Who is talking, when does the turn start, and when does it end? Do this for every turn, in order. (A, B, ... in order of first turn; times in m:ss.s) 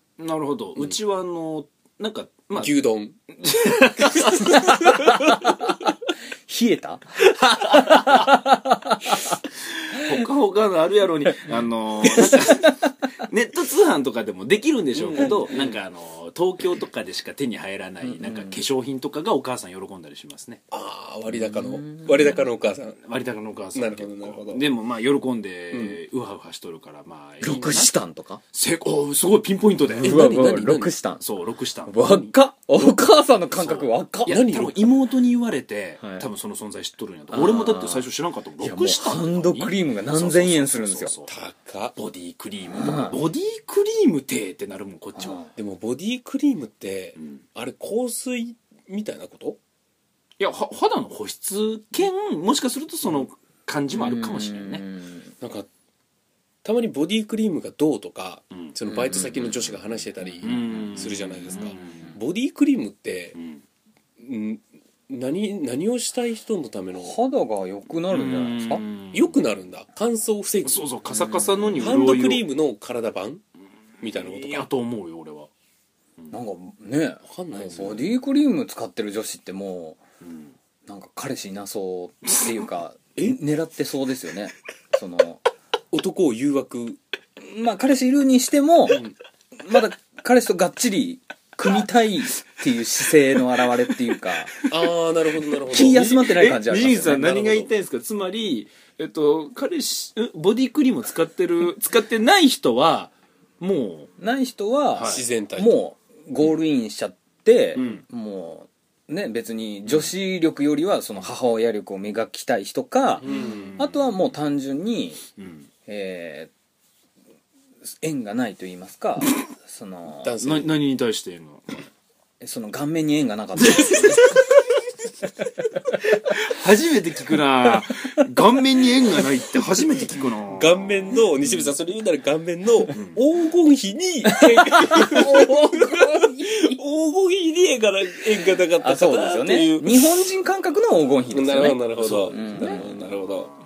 0:00.2-0:02.7 A
0:02.6-0:03.2 B
0:03.4-0:04.9 A
0:04.0-0:05.3 B
0:04.5-0:05.7 C
0:06.5-0:09.4 C
0:07.5-0:08.2 A
0:09.9-0:20.6 A
0:12.2-0:12.7 C
0:14.9-0:15.8 B
0:18.2-0:18.6 C
0:20.7-0:23.0 B
0:21.3-0:22.5 C
0:23.0-0:27.9 A
0:23.7-0:24.6 B
0:25.7-0:26.0 B
0:27.4-0:28.4 C
0:28.5-0:30.6 A
0:30.0-0:31.2 C
0:30.0-0:30.9 B
0:31.2-0:32.0 A
0:31.8-0:34.4 C
0:32.0-0:32.3 B
0:34.2-0:41.3 A
0:34.3-0:34.9 B
0:36.0-0:36.3 C
0:37.3-0:38.1 C
0:38.6-0:41.1 C
0:41.3-0:41.9 B
0:41.9-0:45.4 A
0:42.7-0:43.2 C
0:45.2-0:45.5 C
0:45.5-0:49.6 B
0:47.2-0:47.4 A
0:50.4-0:54.9 A
0:53.9-0:55.3 C
0:55.4-0:55.7 B
0:56.6-1:03.4 B
0:58.9-0:59.3 C
1:00.4-1:02.1 A
1:01.6-1:01.9 C
1:04.2-1:07.2 B
1:07.0-1:08.8 C
1:08.1-1:09.4 A
1:09.1-1:10.9 B
1:10.6-1:12.4 A
1:11.1-1:11.8 C
1:11.8-1:13.4 B
1:14.0-1:14.7 B
1:14.0-1:15.5 A
1:16.3-1:20.0 C
1:17.2-1:18.1 B
1:20.2-1:20.5 A
1:20.8-1:25.4 C
1:25.9-1:27.0 B
1:27.4-1:29.0 C
1:28.9-1:29.1 B
1:29.6-1:34.6 C
1:34.7-1:37.3 B
1:35.6-1:44.1 A
1:35.7-1:37.7 C
1:44.2-1:55.2 C
1:44.9-1:45.2 A
1:45.0-1:45.8 B
1:47.8-1:48.0 A
1:53.2-1:53.8 B
1:53.2-1:54.2 A
1:55.4-1:55.7 A
1:55.9-1:56.5 C
1:58.0-2:00.4 C
2:00.2-2:00.8 B
2:00.4-2:01.8 A
2:02.4-2:04.6 C
2:03.6-2:04.5 A
2:06.0-2:11.2 A
2:10.5-2:20.1 B
2:12.9-2:13.2 A
2:14.4-2:16.8 C
2:18.8-2:22.9 C
2:21.3-2:23.5 B
2:22.0-2:23.5 A